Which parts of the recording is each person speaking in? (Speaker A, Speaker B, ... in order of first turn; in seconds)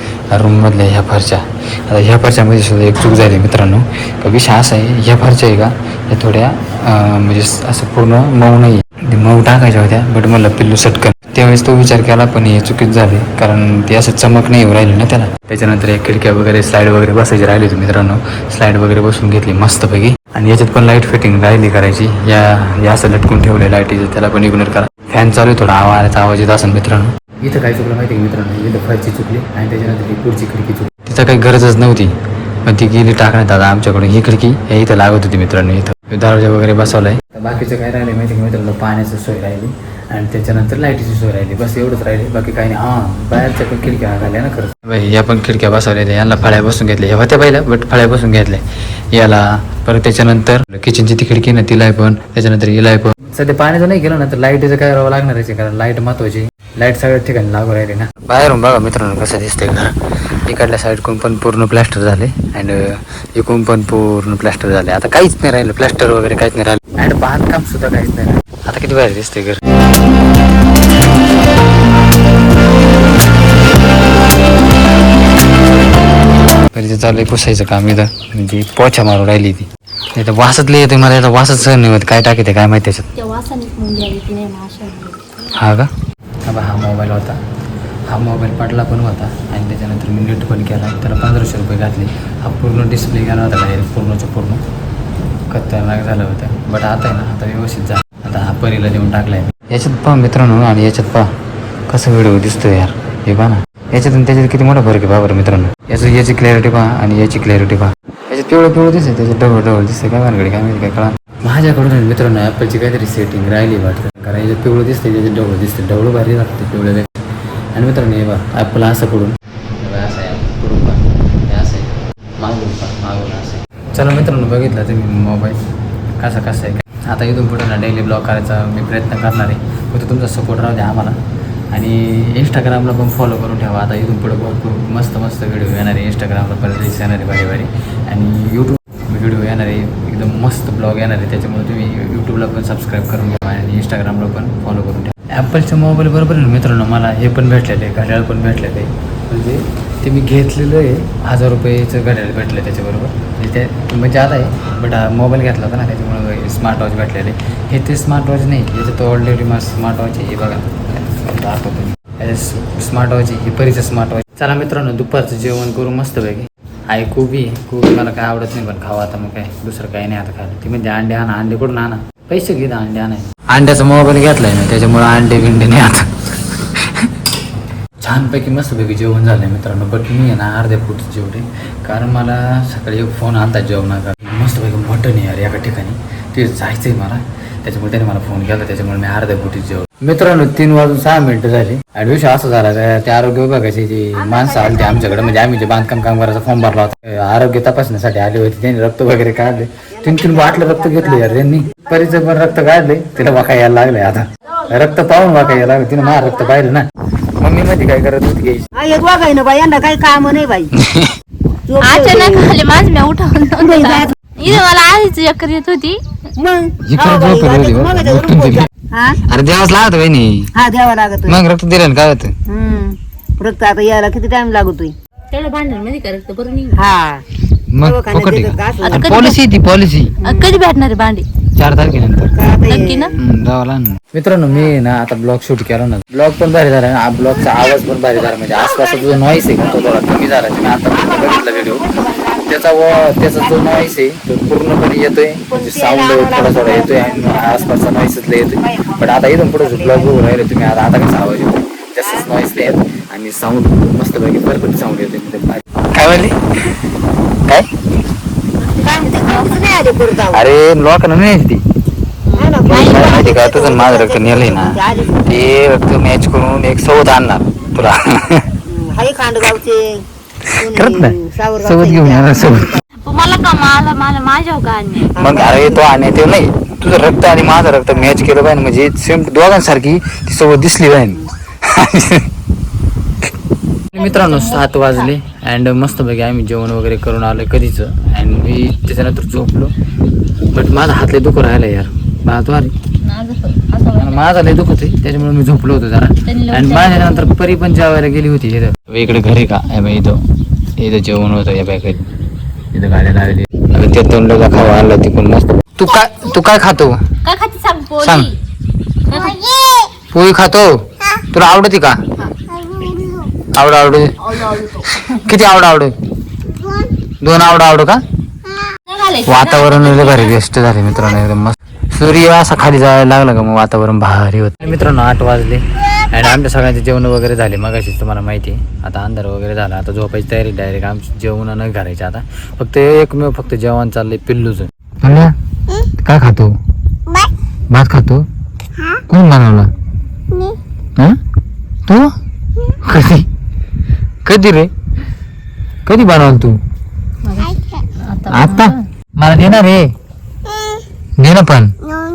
Speaker A: 0.3-69.6, 76.7-83.1, 85.5-85.9, 86.5-87.4, 88.1-94.6, 95.5-101.3, 101.9-117.1, 117.7-125.6, 126.2-131.2, 131.7-177.1, 178.0-206.9, 207.4-208.7, 210.8-211.1, 216.8-220.5, 221.3-222.3, 227.7-230.2, 231.6-232.4, 233.2-241.9, 242.4-256.8, 260.3-261.6, 262.6-268.5, 270.5-272.8, 275.1-282.3, 283.9-289.7, 290.5-292.8, 293.9-300.2, 300.8-302.1, 302.7-307.0, 308.0-308.3, 310.1-312.0, 313.5-315.9, 317.2-318.0, 319.2-335.4, 336.0-336.6, 337.7-338.3, 339.1-339.7, 341.9-342.1, 342.8-343.3, 344.2-344.7, 345.9-346.6, 348.3-349.9, 351.2-351.8
Speaker B: 83.2-85.4, 211.8-216.0, 225.3-226.8, 228.8-229.4, 230.2-231.3, 232.7-233.1, 259.0-259.7, 262.3-263.3, 273.1-275.1, 284.0-285.1, 293.0-294.2, 296.3-297.3, 307.2-308.4, 309.1-309.6, 318.9-320.3, 347.2-348.8
Speaker C: 200.0-201.0, 208.7-210.7, 211.7-212.6, 213.6-214.2, 216.4-219.2, 220.6-221.4, 222.5-224.9, 226.7-227.2, 227.8-229.1, 230.2-230.6, 232.3-233.1, 241.2-242.4, 245.5-247.7, 248.7-249.0, 249.7-250.1, 258.8-260.5, 262.4-265.3, 268.7-270.0, 270.6-272.8, 275.1-275.9